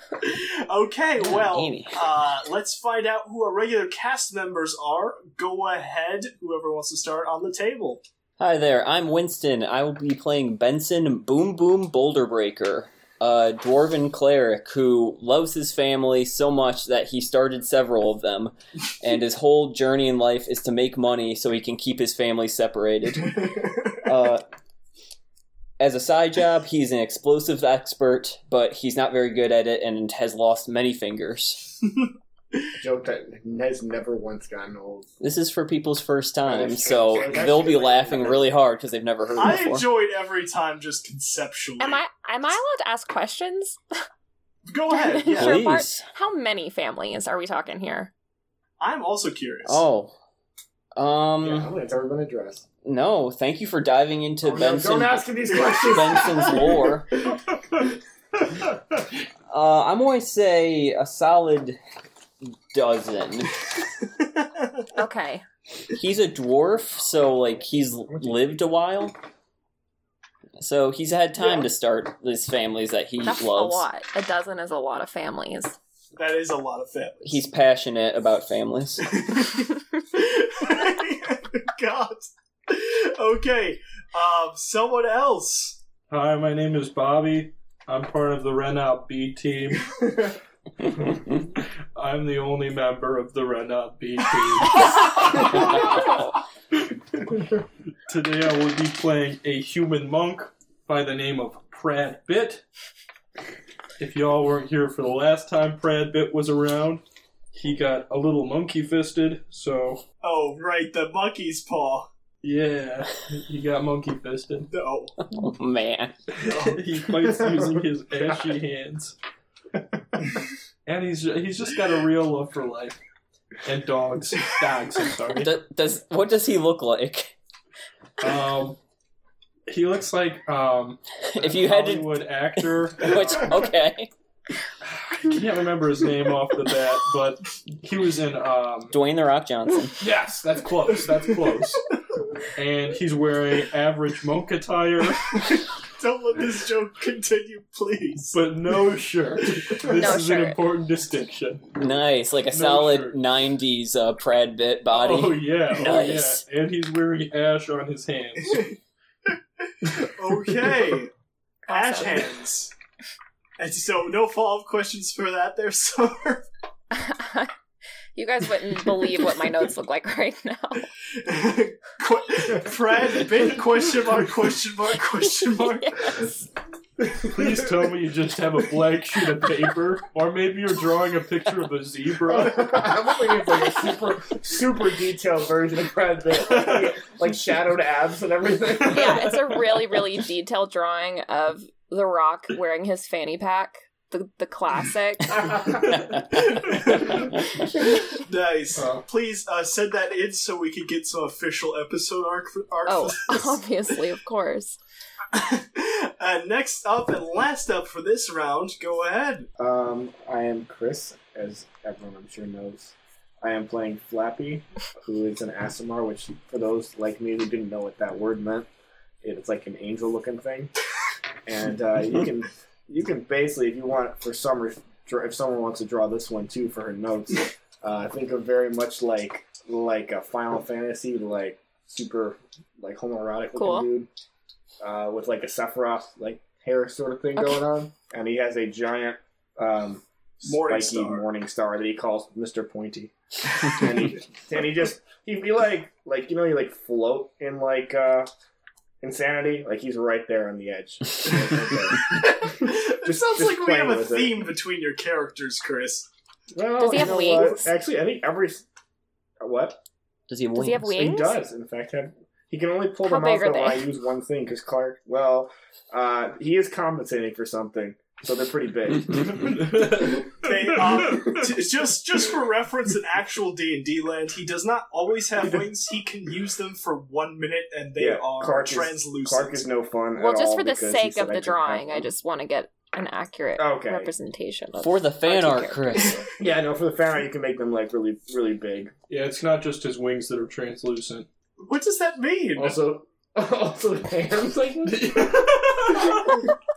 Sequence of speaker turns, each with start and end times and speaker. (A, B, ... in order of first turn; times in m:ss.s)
0:00.2-0:08.0 A
0:01.2-0:02.0 B
0:08.4-0:24.4 B
0:23.2-0:23.9 A
0:25.8-0:31.7 B
0:32.8-0:35.1 C
0:35.2-0:39.9 B
0:36.4-0:38.5 C
0:39.4-0:42.0 A
0:41.8-0:43.8 D
0:44.7-0:45.6 A
0:44.9-0:48.1 D
0:45.3-0:46.0 B
0:48.8-0:49.8 A
0:49.7-0:50.2 B
0:51.0-0:51.7 B
0:51.4-0:52.6 C
0:52.8-0:57.1 B
0:54.4-0:56.9 C
0:59.5-1:01.8 B
1:02.7-1:03.7 B
1:04.2-1:04.8 A
1:05.0-1:05.4 D
1:05.9-1:09.2 B
1:08.1-1:08.6 C
1:10.6-1:13.8 B
1:11.4-1:11.7 A
1:13.2-1:15.8 D
1:16.2-1:17.4 A
1:17.2-1:19.1 B
1:19.1-1:25.8 A
1:26.1-1:29.9 E
1:32.0-1:36.3 E
1:38.1-1:42.6 E
1:44.0-1:50.0 E
1:50.2-1:52.1 A
1:52.4-1:54.7 E
1:54.7-1:55.2 A
1:55.3-1:56.2 B
1:56.3-1:59.2 E
1:56.4-1:56.8 A
1:57.2-1:57.9 C
2:00.9-2:03.0 E
2:03.6-2:05.5 E
2:05.3-2:07.3 B
2:08.2-2:08.8 E
2:09.7-2:13.6 E
2:11.3-2:14.1 B
2:15.2-2:18.9 E
2:18.9-2:20.0 B
2:20.0-2:21.9 E
2:22.6-2:25.4 E
2:25.3-2:28.4 A
2:28.3-2:31.7 E
2:29.9-2:30.6 D
2:31.8-2:36.4 B
2:32.5-2:33.2 E
2:34.9-2:38.7 E
2:39.8-2:41.1 A
2:41.7-2:42.3 D
2:41.7-2:42.7 A
2:43.6-2:46.4 A
2:46.9-2:47.5 D
2:48.2-2:50.9 D
2:51.1-2:56.1 A
2:55.2-2:56.5 D
2:57.2-3:02.8 E
3:02.2-3:09.3 C
3:06.5-3:06.9 E
3:08.9-3:15.6 D
3:08.9-3:09.4 E
3:15.4-3:16.1 C
3:15.8-3:17.6 B
3:16.5-3:17.3 A
3:18.1-3:23.6 A
3:18.8-3:19.0 C
3:22.9-3:24.8 D
3:25.3-3:29.5 A
3:29.6-3:38.7 C
3:39.2-3:40.7 C
3:41.4-3:54.1 C
3:53.6-3:53.9 D
3:54.8-4:08.3 C
3:57.4-3:57.7 D
4:00.4-4:01.2 A
4:09.0-4:14.4 C
4:12.1-4:16.1 A
4:16.5-4:18.7 C
4:16.8-4:17.7 D
4:17.1-4:17.5 A
4:19.4-4:19.8 C
4:20.3-4:21.0 B
4:20.6-4:21.4 D
4:20.9-4:29.9 C
4:23.0-4:23.9 D
4:29.2-4:31.4 E
4:30.4-4:39.6 A
4:38.0-4:42.1 C
4:40.2-4:46.3 D
4:43.6-4:44.1 C
4:44.8-4:46.2 B
4:46.4-4:48.9 C
4:49.1-4:51.3 E
4:51.6-4:52.8 A
4:52.6-4:56.4 C
4:54.8-4:56.5 E